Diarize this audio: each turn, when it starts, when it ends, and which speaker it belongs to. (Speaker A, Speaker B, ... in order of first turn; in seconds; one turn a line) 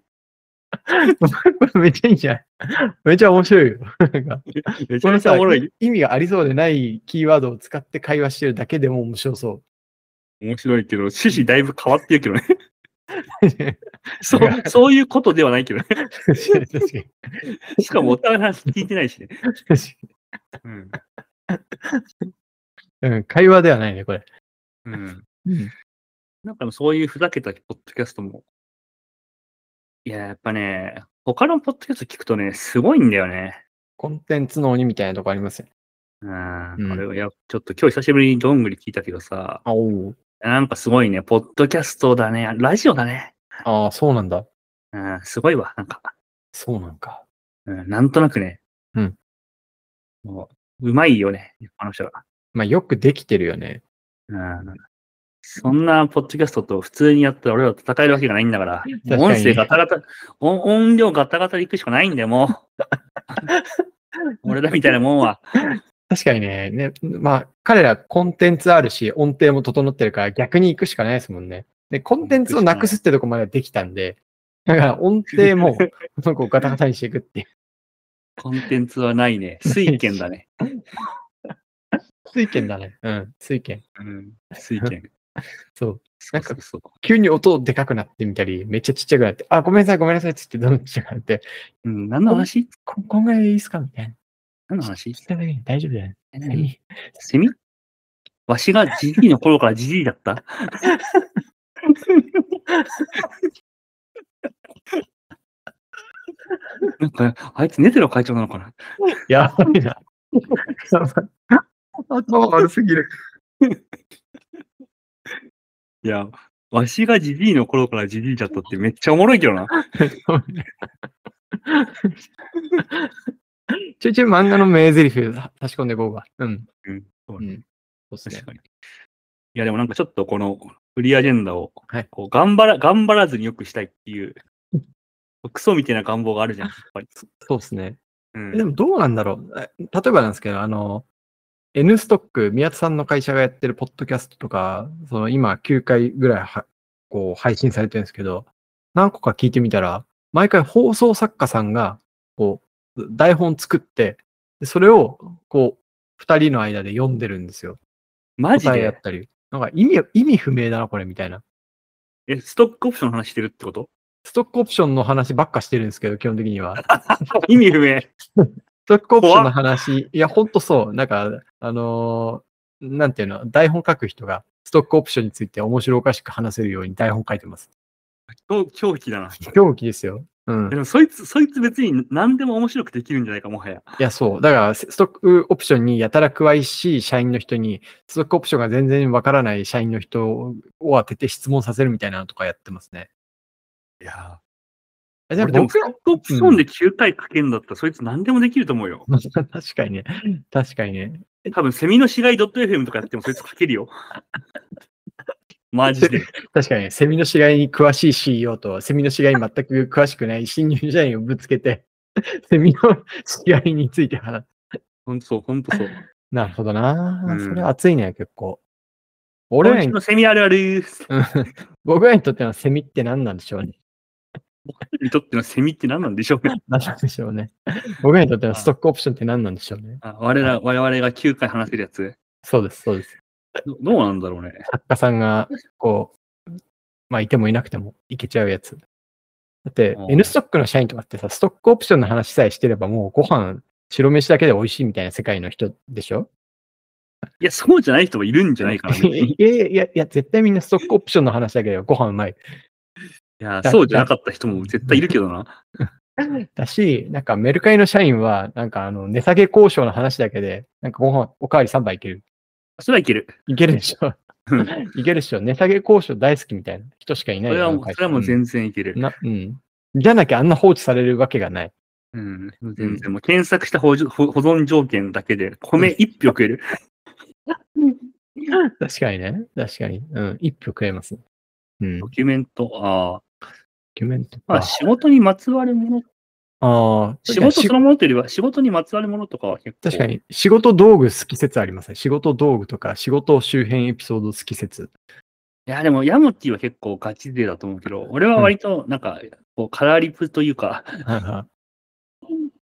Speaker A: 0.9-9.6
Speaker B: 4.6-5.7
Speaker B: 10.4-12.4
Speaker A: 13.4-14.7
Speaker B: 14.2-16.6
Speaker A: 16.2-18.1
Speaker B: 17.7-19.4
Speaker A: 19.5-20.2
Speaker B: 20.6-21.0
Speaker A: 20.9-22.3
Speaker A: 23.0-24.3
Speaker B: 24.9-25.2
Speaker A: 25.4-25.7
Speaker B: 26.4-28.4
Speaker B: 30.1-33.6
Speaker A: 34.0-35.7
Speaker B: 36.2-39.6
Speaker A: 36.8-37.0
Speaker A: 39.6-40.2
Speaker B: 40.4-43.6
Speaker A: 43.6-44.5
Speaker B: 44.9-46.1
Speaker A: 46.5-47.2
Speaker B: 47.7-48.6
Speaker B: 50.2-52.2
Speaker A: 52.5-53.8
Speaker B: 54.3-54.8
Speaker B: 55.4-62.6
Speaker A: 59.0-59.7
Speaker A: 63.5-63.8
Speaker B: 64.5-65.5
Speaker A: 65.7-77.5
Speaker B: 72.2-73.0
Speaker B: 75.4-75.9
Speaker B: 78.4-80.5
Speaker A: 79.7-80.9
Speaker A: 81.5-83.8
Speaker B: 84.0-85.1
Speaker A: 85.7-91.5
Speaker B: 86.2-86.9
Speaker B: 91.8-92.7
Speaker A: 92.3-94.2
Speaker B: 94.7-95.2
Speaker A: 94.8-97.1
Speaker B: 96.3-96.7
Speaker B: 97.2-97.5
Speaker B: 98.5-100.8
Speaker A: 100.9-101.3
Speaker B: 102.0-102.4
Speaker A: 102.7-103.1
Speaker A: 106.5-106.9
Speaker B: 107.0-108.8
Speaker A: 109.3-113.1
Speaker B: 116.0-119.8
Speaker A: 119.9-126.7
Speaker B: 126.8-127.5
Speaker A: 127.4-128.5
Speaker B: 128.3-128.7
Speaker B: 129.5-134.4
Speaker B: 135.4-137.1
Speaker A: 136.6-138.0
Speaker B: 138.3-138.7
Speaker A: 138.5-141.1
Speaker A: 141.7-157.8
Speaker B: 158.4-159.0
Speaker A: 158.6-161.4
Speaker B: 162.3-163.9
Speaker A: 164.2-166.9
Speaker B: 166.9-168.1
Speaker A: 168.4-177.7
Speaker B: 169.2-169.6
Speaker B: 178.3-179.5
Speaker A: 179.4-180.8
Speaker B: 180.7-184.0
Speaker A: 184.0-193.1
Speaker B: 194.0-194.4
Speaker A: 195.3-196.7
Speaker B: 195.4-199.1
Speaker A: 199.1-201.6
Speaker B: 201.5-203.9
Speaker B: 205.7-206.3
Speaker A: 206.0-211.9
Speaker A: 212.4-214.8
Speaker B: 215.1-216.0
Speaker A: 215.8-218.6
Speaker B: 217.3-217.7
Speaker A: 219.5-220.0
Speaker B: 219.6-221.1
Speaker A: 221.1-223.8
Speaker B: 224.7-226.5
Speaker A: 226.7-230.6
Speaker B: 230.0-232.2
Speaker A: 232.4-233.6
Speaker B: 233.7-234.7
Speaker A: 234.7-238.8
Speaker A: 239.7-246.3
Speaker B: 239.9-240.3
Speaker B: 247.4-249.4
Speaker A: 248.6-252.4
Speaker B: 253.4-255.6
Speaker A: 253.6-255.1
Speaker A: 255.8-262.2
Speaker B: 262.8-263.4
Speaker A: 263.5-268.4
Speaker B: 267.5-269.0
Speaker A: 268.9-271.7
Speaker B: 272.1-276.6
Speaker A: 272.8-273.1
Speaker A: 278.8-281.2
Speaker A: 281.8-282.1
Speaker B: 282.0-283.2
Speaker A: 284.0-284.8
Speaker B: 284.5-286.1
Speaker A: 286.6-287.8
Speaker B: 287.3-290.1
Speaker A: 289.8-294.9
Speaker B: 295.7-301.1
Speaker A: 301.1-301.5